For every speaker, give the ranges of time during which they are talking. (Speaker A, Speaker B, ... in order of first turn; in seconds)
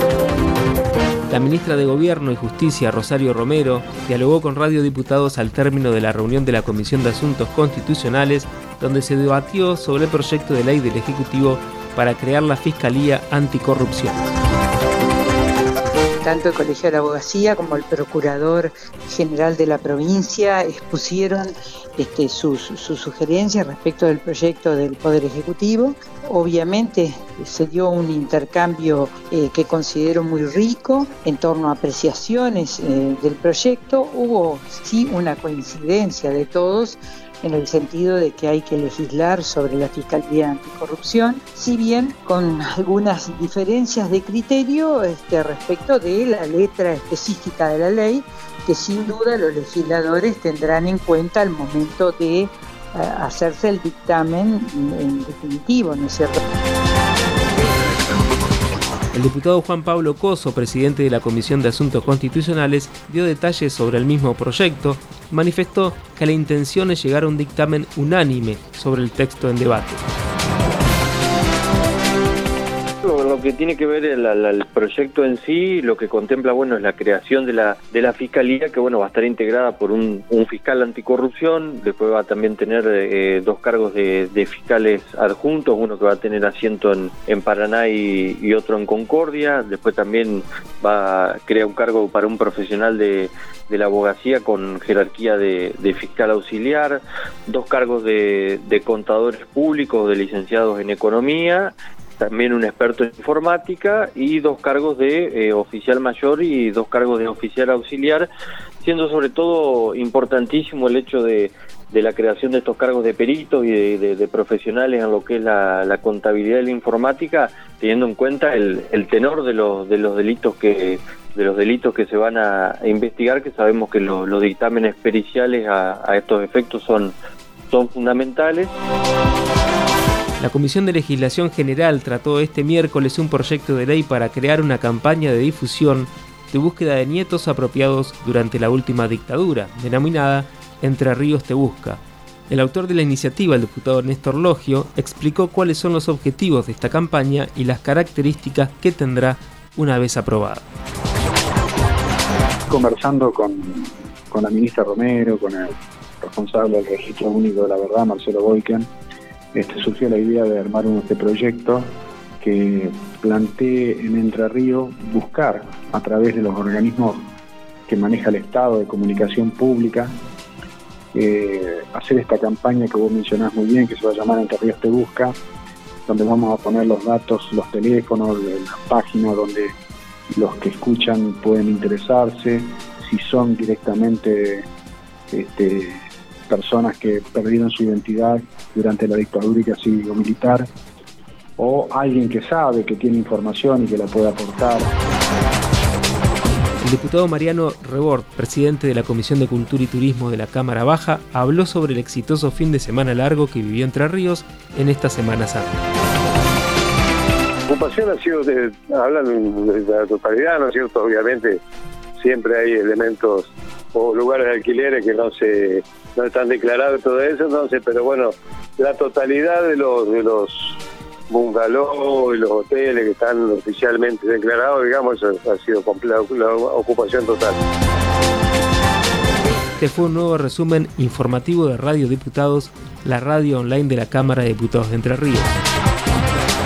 Speaker A: 1.3-14.3, 59.1-70.0, 130.4-150.7, 196.8-205.7, 229.8-235.6
Speaker B: 16.2-56.4
Speaker C: 73.0-108.3, 108.8-127.2, 127.7-128.7
Speaker D: 152.7-158.9, 159.5-167.3, 167.9-170.1, 171.1-175.3, 176.1-179.7, 180.3-184.7, 185.3-190.7, 191.6-194.9
Speaker E: 207.7-211.6, 212.2-220.8, 221.3-227.6